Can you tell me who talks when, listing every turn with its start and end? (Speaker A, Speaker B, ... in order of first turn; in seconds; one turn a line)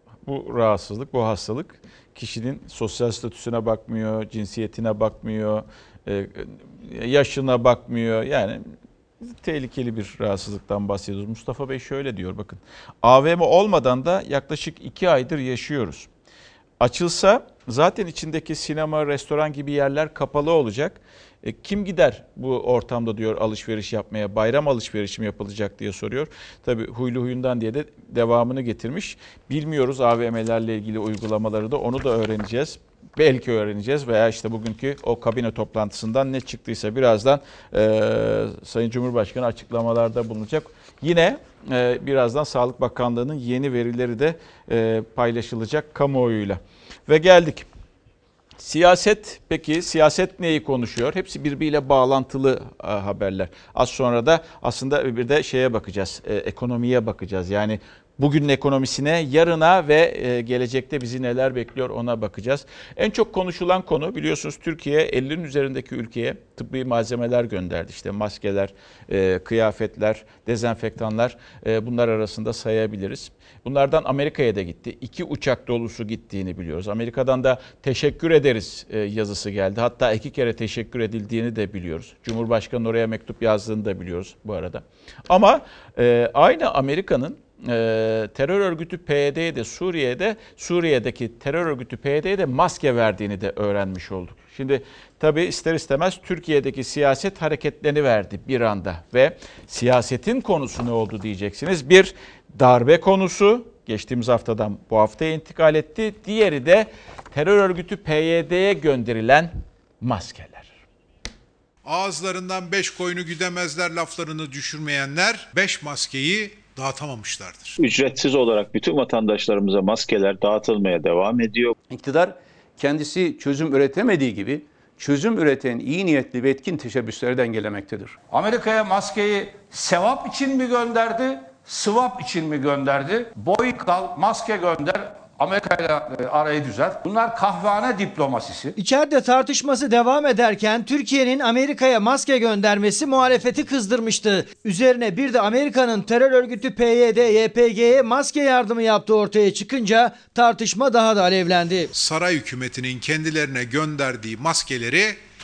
Speaker A: 0.2-8.6
Speaker A: 9.2-16.1
Speaker A: 16.8-47.7
Speaker A: 48.6-110.8
Speaker B: 111.8-117.8
Speaker C: 117.8-121.8
Speaker D: 121.9-128.2
Speaker E: 128.3-138.7
Speaker F: 138.8-151.9
Speaker B: 151.9-155.2